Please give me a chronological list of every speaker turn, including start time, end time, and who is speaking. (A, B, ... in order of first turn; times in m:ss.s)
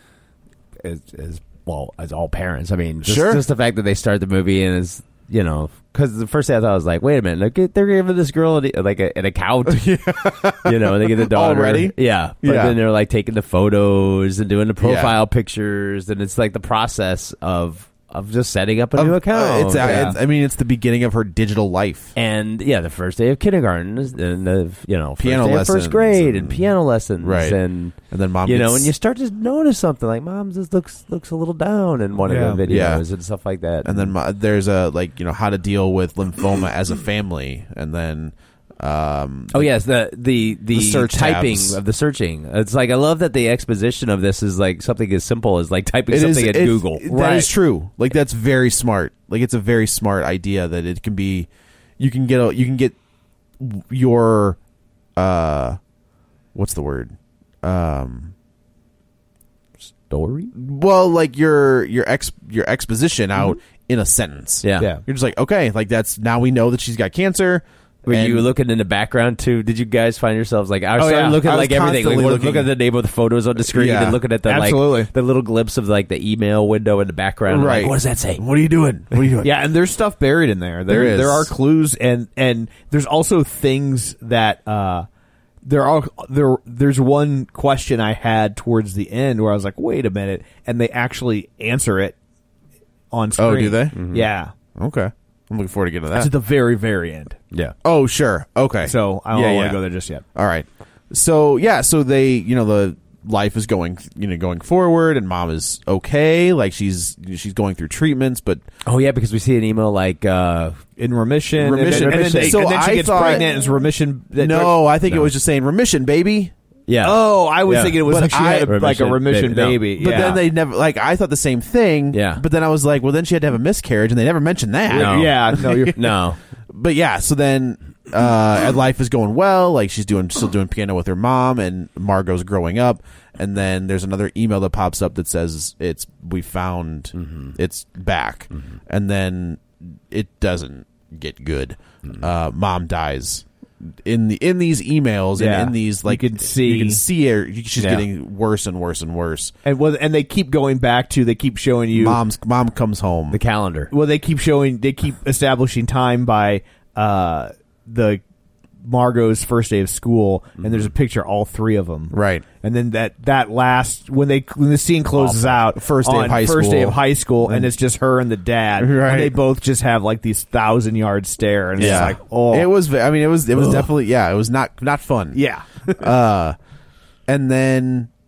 0:00.8-0:20.2 A
0:03.0-0:03.4 B
0:09.7-0:12.8 B
0:14.8-0:15.2 B
0:19.0-0:22.1 B
0:19.8-0:20.2 C
0:22.2-0:34.1 A
0:25.2-0:26.7 B
0:27.2-0:27.6 B
0:28.1-0:28.9 B
0:32.2-0:32.6 C
0:32.7-0:33.0 B
0:33.8-0:39.7 B
0:39.5-0:47.5 A
0:40.7-0:41.8 B
0:46.1-0:53.0 B
0:53.6-0:54.6 B
0:55.2-0:55.8 B
0:56.5-0:58.3 B
1:00.1-1:00.5 A
1:00.6-1:08.5 B
1:04.6-1:04.9 A
1:08.1-1:18.4 A
1:11.0-1:11.4 C
1:11.4-1:12.7 B
1:13.6-1:14.2 B
1:14.5-1:15.1 C
1:17.5-1:19.6 B
1:19.4-1:25.1 C
1:20.9-1:21.5 B
1:25.6-1:32.2 C
1:33.1-1:34.5 C
1:33.4-1:34.0 B
1:33.9-1:34.3 A
1:34.8-1:36.3 B
1:36.1-1:37.4 C
1:37.8-1:39.8 B
1:38.8-1:40.2 C
1:40.4-1:48.6 B
1:48.8-1:50.8 A
1:51.0-1:54.8 C
1:51.6-1:53.6 B
1:51.7-1:53.3 A
1:54.4-1:56.5 B
1:56.9-2:00.4 A
1:57.0-2:00.4 C
1:58.0-1:58.8 B
2:00.0-2:05.9 B
2:02.1-2:02.4 A
2:04.9-2:06.2 C
2:04.9-2:06.4 A
2:06.7-2:29.5 B
2:17.2-2:17.6 A
2:25.4-2:27.0 C
2:27.8-2:28.1 A
2:29.6-2:32.2 C
2:31.9-2:33.4 B
2:33.3-2:33.9 A
2:33.9-2:38.2 C
2:38.8-2:52.7 C
2:40.6-2:40.9 A
2:42.1-2:42.4 B
2:45.2-2:45.6 A
2:45.8-2:47.7 B
2:48.8-2:49.4 B
2:51.8-2:52.2 A
2:51.8-2:55.4 B
2:55.3-2:56.1 C
2:56.0-2:56.6 B
2:57.3-2:58.1 B